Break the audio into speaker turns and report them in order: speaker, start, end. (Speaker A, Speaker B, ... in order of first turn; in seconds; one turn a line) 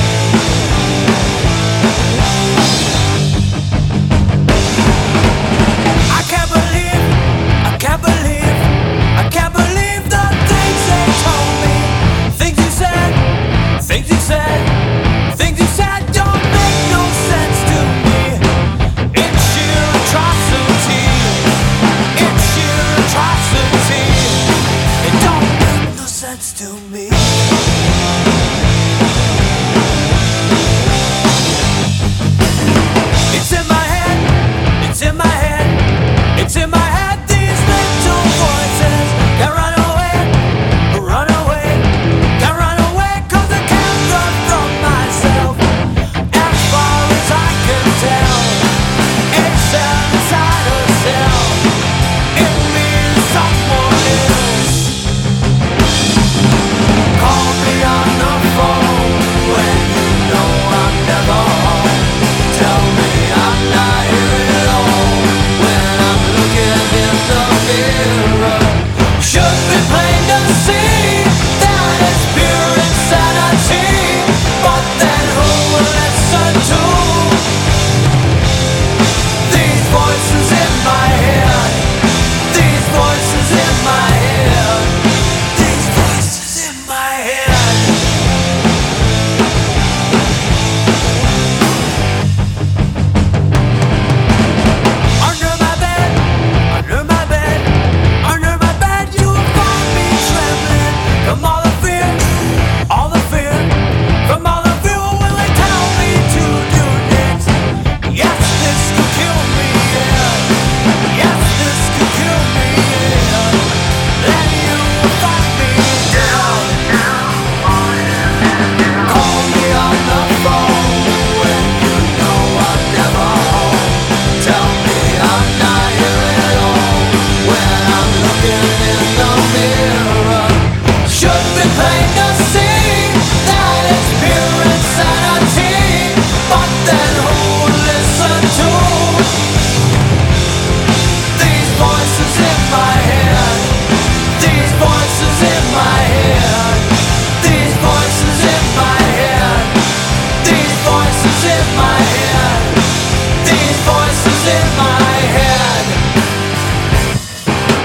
Speaker A: 6.1-18.5
Speaker A: 19.1-21.6
Speaker A: 22.1-27.5
Speaker A: 33.3-45.7
Speaker A: 46.3-48.7
Speaker A: 49.3-51.7
Speaker A: 52.3-54.9
Speaker A: 57.1-77.5
Speaker A: 79.4-88.1
Speaker A: 95.2-139.4
Speaker A: 141.3-156.0